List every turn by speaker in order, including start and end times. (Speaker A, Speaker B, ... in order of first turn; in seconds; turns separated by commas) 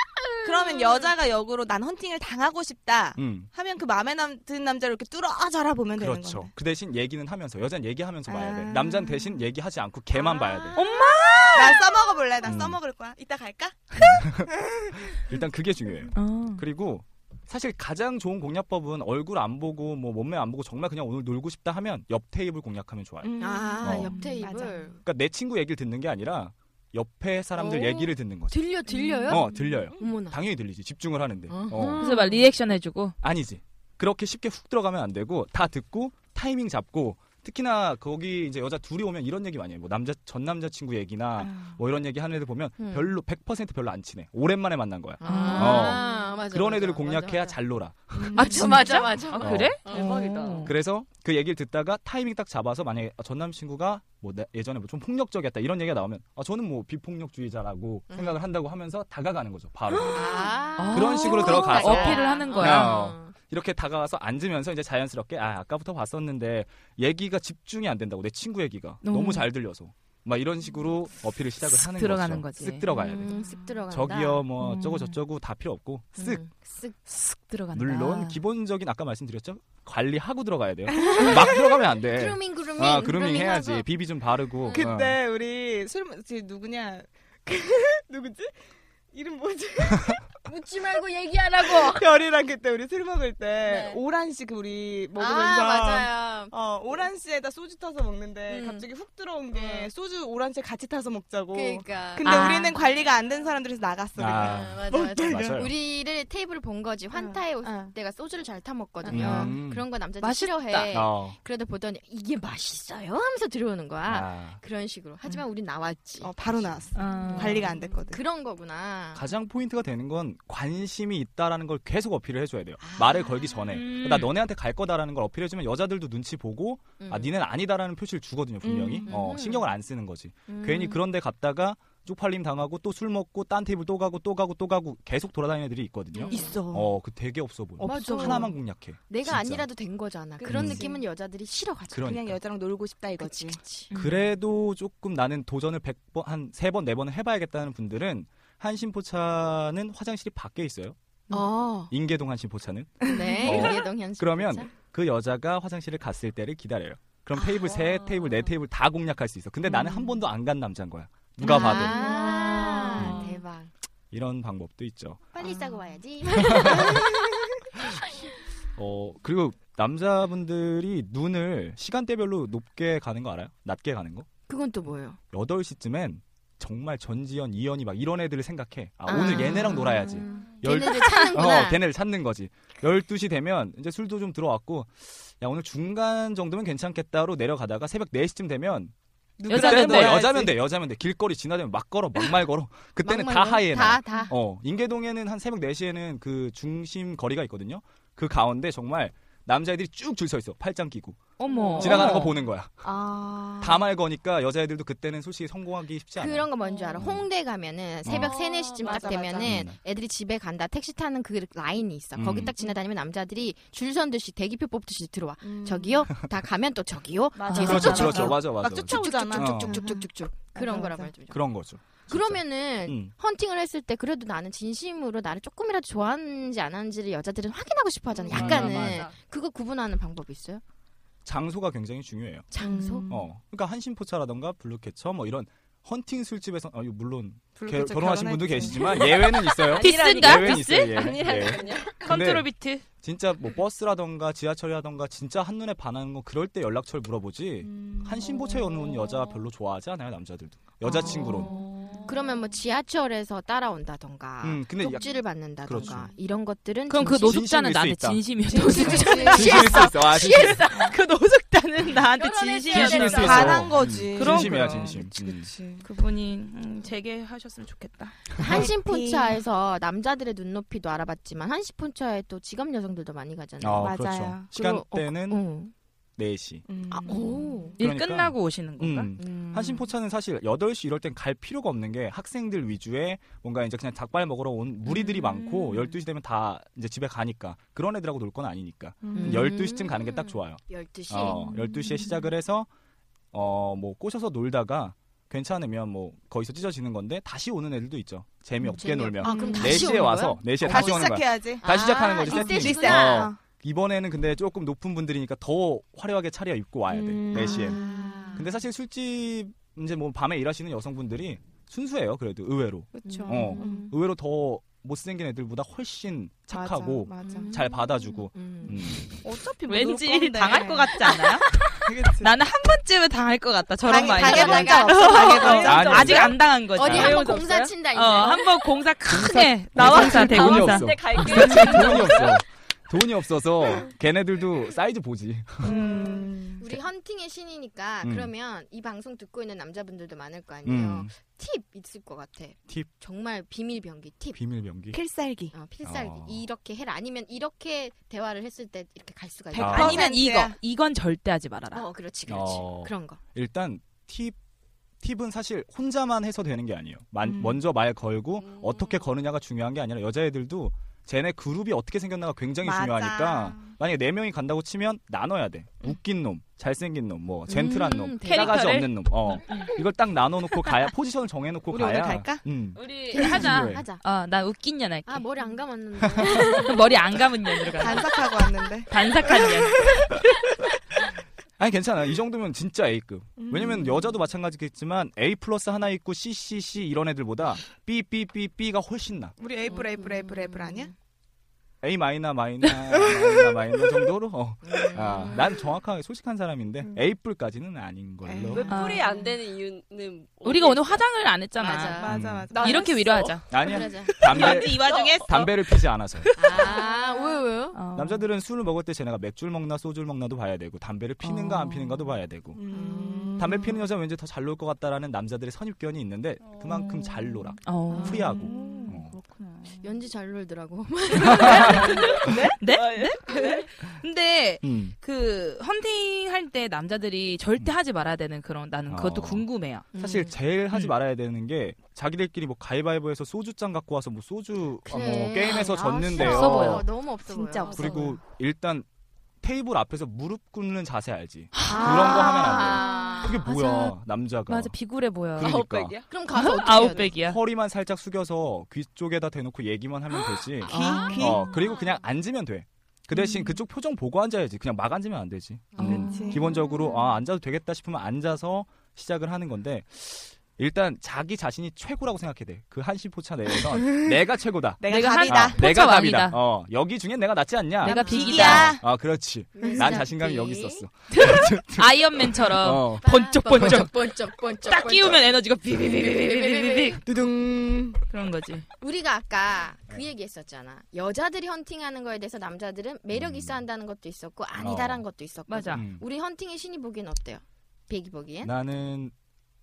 Speaker A: 0.1-1.1, Speaker B: 0.4-6.5, Speaker C: 3.1-3.5, Speaker C: 6.0-10.8, Speaker B: 8.3-9.4, Speaker B: 10.1-15.4, Speaker D: 10.7-11.9, Speaker C: 12.4-12.8, Speaker C: 13.9-24.2, Speaker D: 16.1-16.6, Speaker B: 23.2-24.9, Speaker A: 23.4-25.0, Speaker D: 24.1-24.4, Speaker C: 25.0-28.6, Speaker A: 27.6-30.4, Speaker B: 28.9-30.1, Speaker C: 29.3-32.0, Speaker A: 31.5-32.3, Speaker D: 32.0-33.1, Speaker B: 32.0-32.3, Speaker C: 33.2-48.8, Speaker B: 41.4-41.8, Speaker A: 42.8-43.1, Speaker A: 45.2-47.6, Speaker D: 45.2-46.0, Speaker B: 48.1-48.8, Speaker A: 48.3-50.2, Speaker D: 48.3-50.7, Speaker C: 49.4-49.8, Speaker E: 49.8-50.7, Speaker C: 50.6-60.3, Speaker A: 58.1-58.4, Speaker D: 59.9-63.1, Speaker A: 60.1-63.3, Speaker C: 60.9-73.4, Speaker D: 69.0-69.5, Speaker D: 71.8-72.9, Speaker A: 72.9-74.5, Speaker C: 73.9-76.4, Speaker D: 74.6-75.2, Speaker A: 76.2-77.0, Speaker D: 77.1-78.4, Speaker C: 77.7-85.2, Speaker A: 81.0-83.9, Speaker B: 81.0-81.5, Speaker A: 84.6-84.9, Speaker B: 84.7-88.5, Speaker B: 89.1-90.2, Speaker A: 90.4-92.1, Speaker B: 91.6-105.5, Speaker A: 93.7-94.0, Speaker A: 95.2-96.5, Speaker A: 98.5-98.9, Speaker A: 99.5-99.9, Speaker A: 101.5-103.1, Speaker C: 104.2-105.7, Speaker A: 104.3-119.2, Speaker B: 107.1-107.9, Speaker B: 109.0-109.5, Speaker C: 109.1-109.8, Speaker D: 109.2-109.5, Speaker D: 110.2-111.0, Speaker C: 110.9-111.4, Speaker C: 114.1-114.6, Speaker B: 116.2-118.2, Speaker D: 117.0-117.7, Speaker C: 119.1-139.7, Speaker A: 122.8-123.8, Speaker D: 123.7-124.3, Speaker A: 127.0-127.3, Speaker B: 128.6-129.1, Speaker A: 129.1-129.7, Speaker A: 130.5-131.0, Speaker A: 136.1-136.6, Speaker B: 136.3-136.9, Speaker D: 136.3-136.6, Speaker B: 137.8-138.5, Speaker A: 137.8-138.6, Speaker A: 139.1-142.1, Speaker B: 140.4-141.0, Speaker C: 140.5-140.9, Speaker C: 141.9-142.4, Speaker B: 142.0-143.6, Speaker A: 143.2-143.9, Speaker D: 143.9-144.2, Speaker C: 143.9-150.9, Speaker A: 151.3-151.9, Speaker C: 151.9-162.2, Speaker B: 153.0-153.7, Speaker A: 153.0-154.7, Speaker A: 157.4-157.8, Speaker A: 159.7-160.2, Speaker A: 161.4-163.7, Speaker B: 161.4-163.3, Speaker C: 162.9-163.3, Speaker C: 164.1-165.3, Speaker A: 165.3-167.3, Speaker B: 165.4-165.7, Speaker C: 166.4-167.1, Speaker B: 166.6-167.2, Speaker C: 168.7-174.3, Speaker A: 174.5-175.2, Speaker C: 175.3-188.9, Speaker A: 179.1-181.8, Speaker D: 181.1-181.3, Speaker B: 189.4-190.6, Speaker D: 189.5-190.3, Speaker C: 189.5-201.2, Speaker A: 193.0-194.3, Speaker D: 201.4-202.3, Speaker B: 201.5-203.9, Speaker C: 201.8-202.7, Speaker C: 203.6-207.3, Speaker A: 206.2-221.4, Speaker C: 208.0-208.3, Speaker E: 208.1-209.5, Speaker B: 208.8-209.5, Speaker C: 209.4-209.8, Speaker C: 212.2-212.5, Speaker B: 215.4-216.1, Speaker E: 217.4-218.1, Speaker B: 217.4-221.1, Speaker C: 217.5-219.8, Speaker C: 221.3-223.1, Speaker A: 222.1-230.6, Speaker B: 228.3-228.8, Speaker E: 228.3-229.1, Speaker C: 228.3-229.0, Speaker C: 231.2-232.5, Speaker A: 232.5-233.2, Speaker B: 232.6-233.2, Speaker C: 233.1-251.5, Speaker B: 237.6-239.4, Speaker E: 239.5-242.1, Speaker D: 239.7-241.5, Speaker D: 242.0-242.8, Speaker B: 247.6-249.0, Speaker A: 250.8-251.5, Speaker B: 250.9-252.2, Speaker D: 251.5-251.8, Speaker A: 252.1-257.4, Speaker C: 254.4-256.1, Speaker D: 256.9-265.1, Speaker C: 257.2-258.2, Speaker A: 258.5-260.9, Speaker B: 258.6-259.8, Speaker C: 258.9-260.6, Speaker B: 262.1-265.9, Speaker C: 262.7-265.5, Speaker D: 265.8-268.2, Speaker A: 268.4-274.0, Speaker B: 268.4-269.4, Speaker C: 273.6-275.4, Speaker B: 273.8-274.5, Speaker A: 274.5-275.7, Speaker C: 276.2-276.6, Speaker B: 276.6-277.7, Speaker A: 276.9-277.8, Speaker D: 277.8-279.1, Speaker C: 277.8-292.7, Speaker A: 279.2-279.9, Speaker B: 289.0-289.9, Speaker A: 289.1-291.4, Speaker B: 291.3-292.1, Speaker C: 293.3-307.8, Speaker A: 298.6-301.1, Speaker B: 299.2-303.4, Speaker A: 301.6-303.3, Speaker B: 306.9-308.4, Speaker A: 307.3-308.6, Speaker C: 308.4-319.2, Speaker B: 312.9-313.9, Speaker A: 313.1-313.9, Speaker B: 316.5-317.5, Speaker A: 317.2-319.0, Speaker B: 319.2-322.4, Speaker D: 319.6-327.1, Speaker B: 323.8-326.1, Speaker A: 323.9-325.6, Speaker E: 325.3-327.8, Speaker C: 325.6-327.2, Speaker A: 326.7-328.5, Speaker D: 327.9-332.0, Speaker C: 329.1-335.7, Speaker B: 329.8-330.6, Speaker E: 329.8-332.4, Speaker B: 331.3-331.9, Speaker B: 335.6-336.6, Speaker A: 335.6-344.4, Speaker C: 338.0-338.3, Speaker C: 340.6-341.1, Speaker C: 344.3-345.0, Speaker B: 344.9-345.5, Speaker A: 345.5-350.1, Speaker C: 345.8-346.4, Speaker B: 349.5-350.6, Speaker C: 349.6-350.0, Speaker D: 349.7-351.9, Speaker A: 351.7-353.2, Speaker C: 352.3-354.4, Speaker C: 355.0-373.8, Speaker B: 357.2-357.6, Speaker E: 358.4-359.0, Speaker B: 362.6-363.7, Speaker A: 367.5-368.7, Speaker D: 368.2-369.7, Speaker B: 371.7-372.4, Speaker D: 372.8-375.2, Speaker A: 373.1-374.0, Speaker A: 375.1-376.8, Speaker C: 376.0-376.6, Speaker D: 376.3-378.1, Speaker B: 377.7-380.1, Speaker D: 378.9-380.3, Speaker C: 381.6-389.3, Speaker B: 383.4-384.1, Speaker B: 389.4-390.9, Speaker A: 389.8-390.9, Speaker C: 391.8-398.7, Speaker B: 393.0-393.5, Speaker A: 394.6-395.5, Speaker B: 398.3-398.7, Speaker E: 398.5-401.1, Speaker D: 398.7-399.1, Speaker D: 400.4-402.0, Speaker A: 401.6-402.2, Speaker B: 402.0-404.6, Speaker C: 402.1-402.5, Speaker E: 402.6-403.1, Speaker D: 402.6-406.9, Speaker C: 403.5-406.3, Speaker A: 403.6-404.2, Speaker E: 404.9-405.2, Speaker A: 406.4-407.8, Speaker B: 406.7-407.4, Speaker D: 407.7-408.3, Speaker C: 407.9-412.6, Speaker D: 411.2-412.2, Speaker B: 412.6-413.8, Speaker A: 412.7-413.6, Speaker C: 413.4-419.1, Speaker D: 416.7-417.1, Speaker D: 417.6-419.9, Speaker B: 417.9-418.9, Speaker A: 419.8-422.2, Speaker D: 421.2-429.9, Speaker C: 421.2-421.8, Speaker E: 421.5-423.6, Speaker C: 424.6-424.9, Speaker C: 428.9-436.9, Speaker A: 429.9-430.3, Speaker A: 434.8-438.1, Speaker B: 435.9-436.7, Speaker D: 436.1-436.9, Speaker B: 437.3-438.2, Speaker C: 437.7-438.9, Speaker C: 439.4-444.7, Speaker D: 441.6-443.9, Speaker A: 441.6-443.4, Speaker D: 444.5-445.6, Speaker C: 445.4-446.0, Speaker E: 445.4-446.1, Speaker A: 446.1-447.1, Speaker D: 446.3-447.4, Speaker C: 446.8-473.8, Speaker D: 450.6-451.5, Speaker B: 450.7-451.6, Speaker A: 450.7-451.8, Speaker D: 455.8-456.3, Speaker B: 455.8-456.7, Speaker A: 455.8-456.6, Speaker B: 463.9-464.1, Speaker B: 464.8-465.6, Speaker D: 464.9-466.4, Speaker D: 467.8-468.8, Speaker B: 467.8-468.8, Speaker A: 467.9-468.2, Speaker A: 469.5-470.8, Speaker B: 469.6-470.0, Speaker D: 471.1-477.0, Speaker A: 473.0-475.2, Speaker A: 475.9-477.1, Speaker B: 477.1-478.0, Speaker D: 478.1-478.6, Speaker A: 478.8-488.5, Speaker C: 483.1-483.6, Speaker C: 484.6-485.0, Speaker D: 485.5-485.8, Speaker C: 485.7-486.1, Speaker C: 488.4-489.1